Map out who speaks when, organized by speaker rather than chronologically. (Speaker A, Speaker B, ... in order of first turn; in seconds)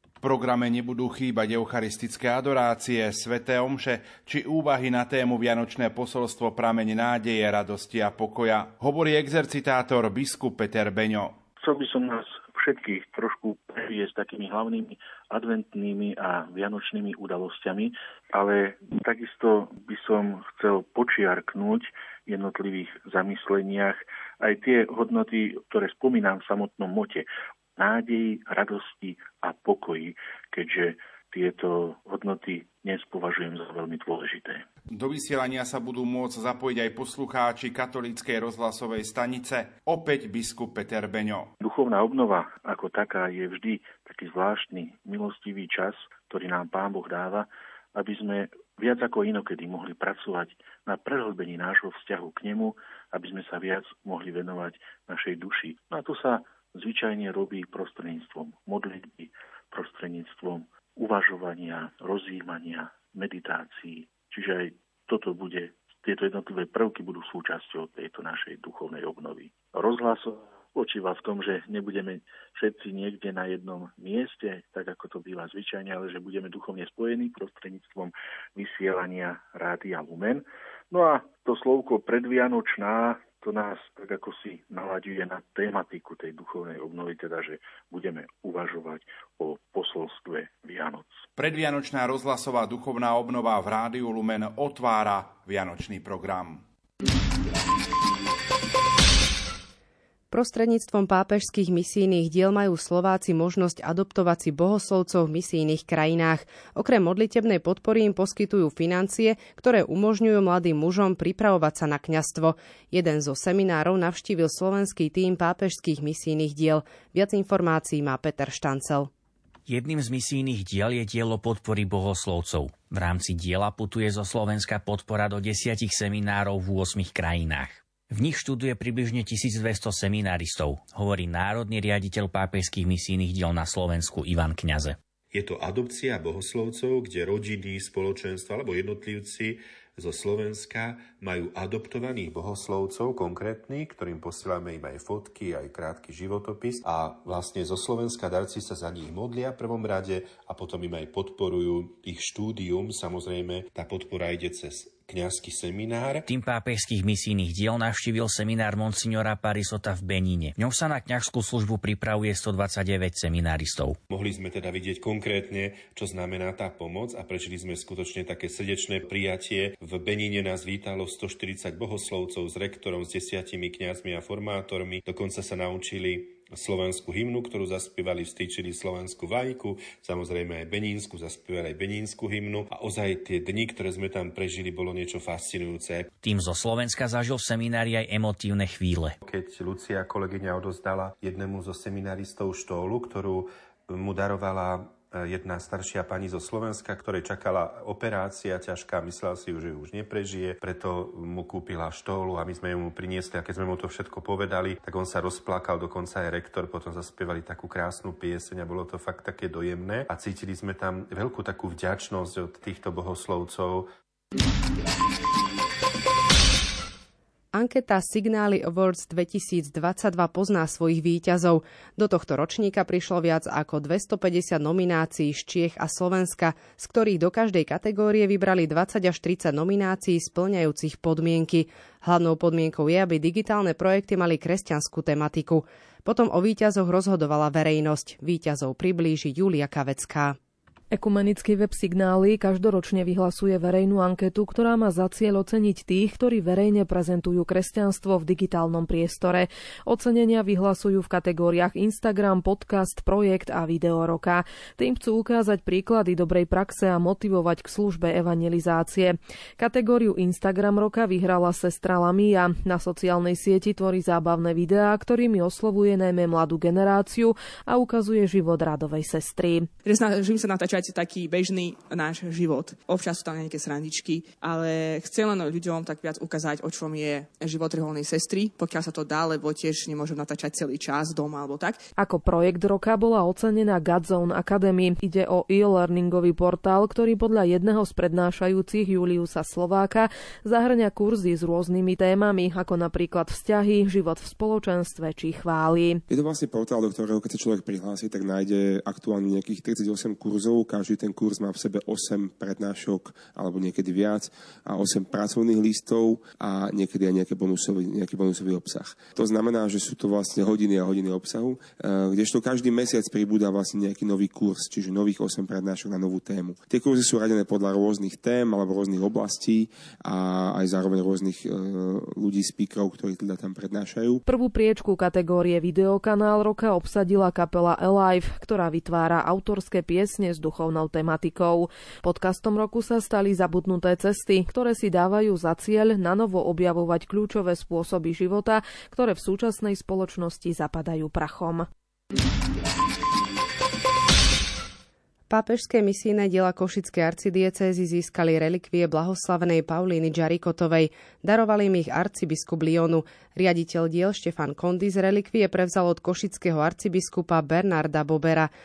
Speaker A: 0.2-11.3, 34.9-41.5, 91.3-96.6
Speaker B: 11.6-34.6, 41.6-91.2
Speaker C: 100.3-119.1, 217.5-240.4, 345.3-358.5
Speaker D: 119.7-135.0, 156.2-164.0, 186.2-189.1
Speaker E: 135.3-156.2, 164.1-186.1, 189.2-213.9
Speaker F: 240.9-269.7, 282.0-296.0, 324.2-341.6
Speaker G: 269.8-281.8
Speaker H: 296.1-324.2